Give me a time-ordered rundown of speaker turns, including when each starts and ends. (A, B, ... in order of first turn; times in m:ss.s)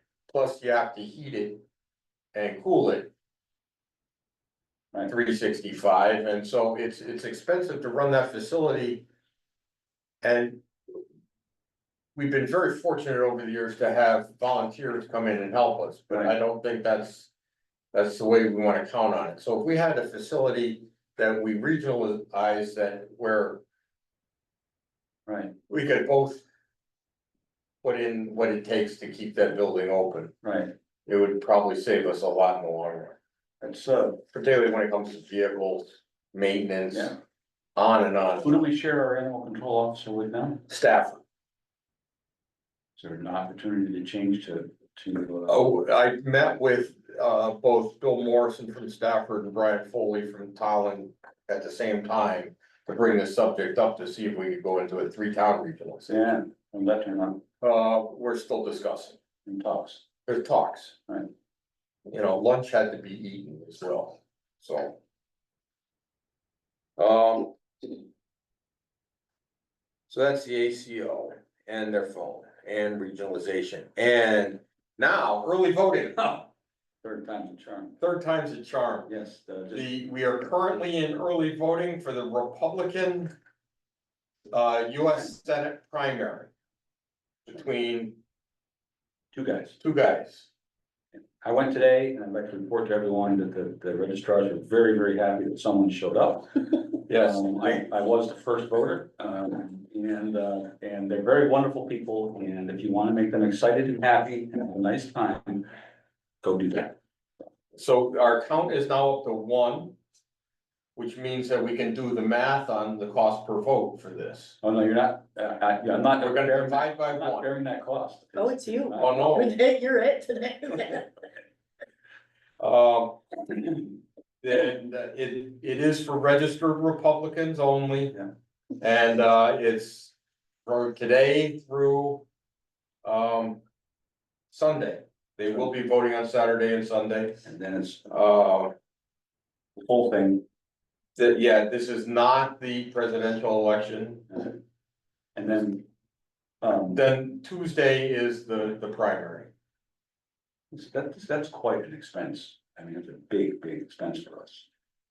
0:00.3-0:01.6 A
0:02.3-0:03.1 A
0:05.1-0:09.0 A
0:10.2-0:10.6 A
0:12.2-0:17.3 A
0:17.9-0:23.6 A
0:25.3-0:25.6 B
0:25.7-0:26.4 A
0:27.8-0:30.3 A
0:30.4-0:30.7 B
0:31.1-0:33.2 A
0:33.6-0:34.2 B
0:34.3-0:37.2 A
0:37.8-0:38.6 A
0:38.4-0:40.6 B
0:40.7-0:41.2 A
0:43.0-0:45.6 B
0:45.5-0:56.1 A
0:56.1-0:57.4 B
0:57.6-0:59.2 A
0:59.5-1:00.0 B
1:00.3-1:01.0 A
1:02.1-1:05.0 A
1:07.0-1:08.0 A
1:10.1-1:16.5 A
1:17.0-1:18.0 B
1:18.0-1:19.1 A
1:19.1-1:19.9 B
1:19.7-1:23.3 A
1:24.5-1:26.5 A
1:27.5-1:28.2 A
1:29.3-1:29.8 B
1:29.8-1:30.5 A
1:31.4-1:45.7 B
1:37.1-1:37.8 A
1:46.4-1:47.0 B
1:47.8-1:50.0 A
1:51.0-1:54.6 A
1:54.6-1:59.5 B
1:56.2-1:57.5 A
1:58.4-2:01.1 C
1:59.0-1:59.5 A
2:02.6-2:03.2 A
2:04.4-2:08.2 A
2:08.8-2:10.1 A
2:10.6-2:12.2 A
2:13.0-2:13.6 A
2:14.5-2:17.5 A
2:17.4-2:18.1 B
2:18.1-2:18.7 A
2:19.8-2:20.4 B
2:21.2-2:24.5 A
2:25.4-2:25.9 B
2:26.6-2:27.0 B
2:26.9-2:29.5 A
2:30.7-2:34.7 B